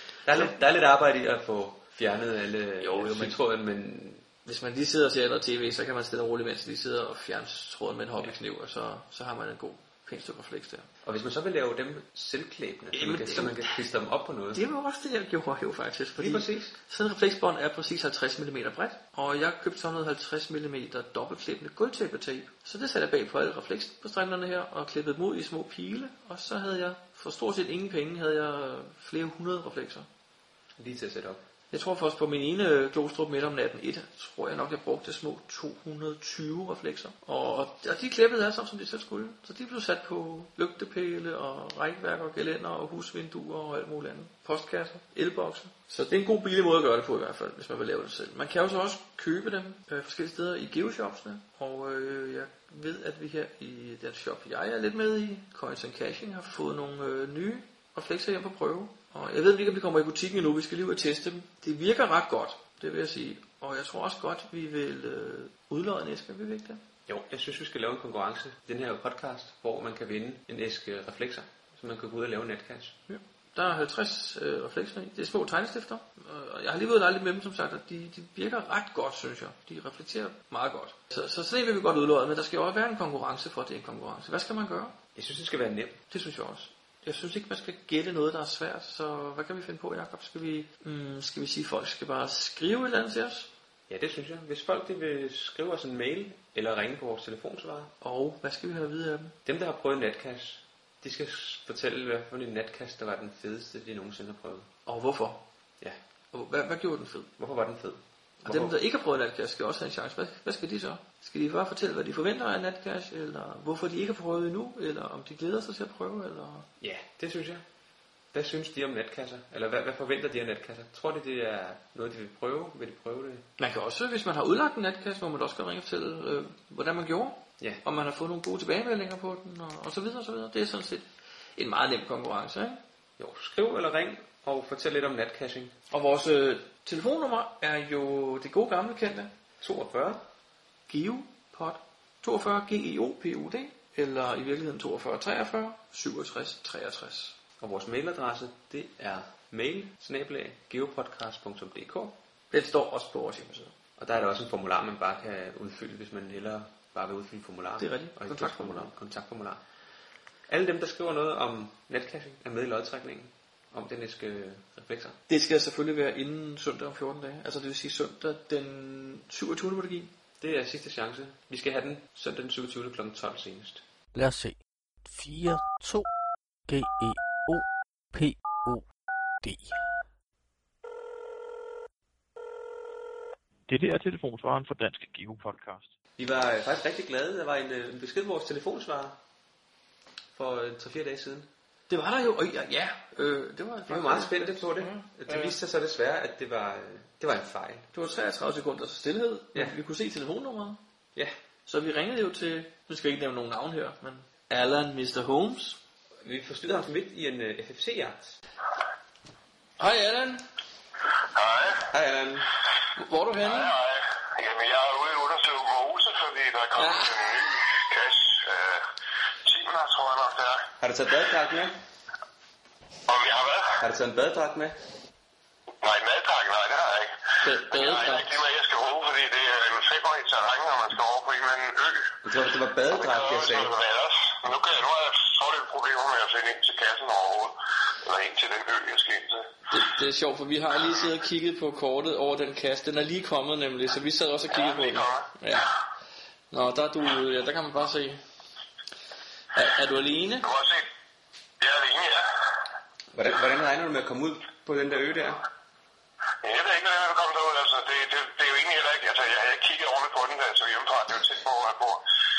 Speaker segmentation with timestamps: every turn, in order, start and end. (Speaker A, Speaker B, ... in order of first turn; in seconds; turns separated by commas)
Speaker A: 0.2-4.2, Speaker B: 2.8-3.4, Speaker B: 4.5-10.9, Speaker A: 11.0-14.6, Speaker B: 12.9-13.7, Speaker B: 14.5-30.1, Speaker A: 16.2-16.8, Speaker A: 30.8-31.4, Speaker B: 31.7-66.8, Speaker A: 67.1-73.0, Speaker B: 73.1-85.0, Speaker A: 85.2-86.0, Speaker B: 86.1-93.5, Speaker A: 93.9-97.9, Speaker B: 98.0-99.4, Speaker A: 99.5-104.7, Speaker B: 104.9-105.4, Speaker B: 106.3-107.3, Speaker A: 107.4-108.8, Speaker B: 108.5-116.7, Speaker A: 116.8-117.6, Speaker A: 118.3-123.5, Speaker B: 123.6-132.8, Speaker A: 133.2-135.7, Speaker B: 135.9-139.3, Speaker A: 139.6-140.2, Speaker B: 140.9-147.3, Speaker A: 147.6-152.2, Speaker B: 152.5-153.7, Speaker A: 154.0-159.6, Speaker B: 157.8-158.9, Speaker A: 160.5-165.2, Speaker B: 165.3-170.1, Speaker A: 170.4-173.8, Speaker C: 174.1-176.1, Speaker C: 176.7-178.9, Speaker C: 179.4-179.8, Speaker D: 183.7-185.9, Speaker A: 186.2-189.2, Speaker A: 190.3-191.5, Speaker B: 191.9-195.6, Speaker A: 193.9-197.9, Speaker B: 197.9-200.8, Speaker B: 201.7-205.8, Speaker A: 206.2-208.4, Speaker B: 209.8-210.4, Speaker E: 211.3-211.9, Speaker A: 211.9-212.5, Speaker B: 213.0-213.8, Speaker E: 213.4-218.8, Speaker B: 216.8-217.1, Speaker E: 219.4-220.7, Speaker A: 220.8-221.8, Speaker E: 223.1-223.8, Speaker A: 223.8-224.8, Speaker E: 225.8-232.1, Speaker B: 227.4-228.3, Speaker A: 232.2-233.7, Speaker E: 232.9-239.5, Speaker B: 239.7-245.7, Speaker E: 244.5-245.3, Speaker B: 246.5-248.2, Speaker B: 249.6-250.5, Speaker E: 250.4-250.9, Speaker E: 251.6-252.2, Speaker A: 253.1-255.5, Speaker E: 256.4-262.0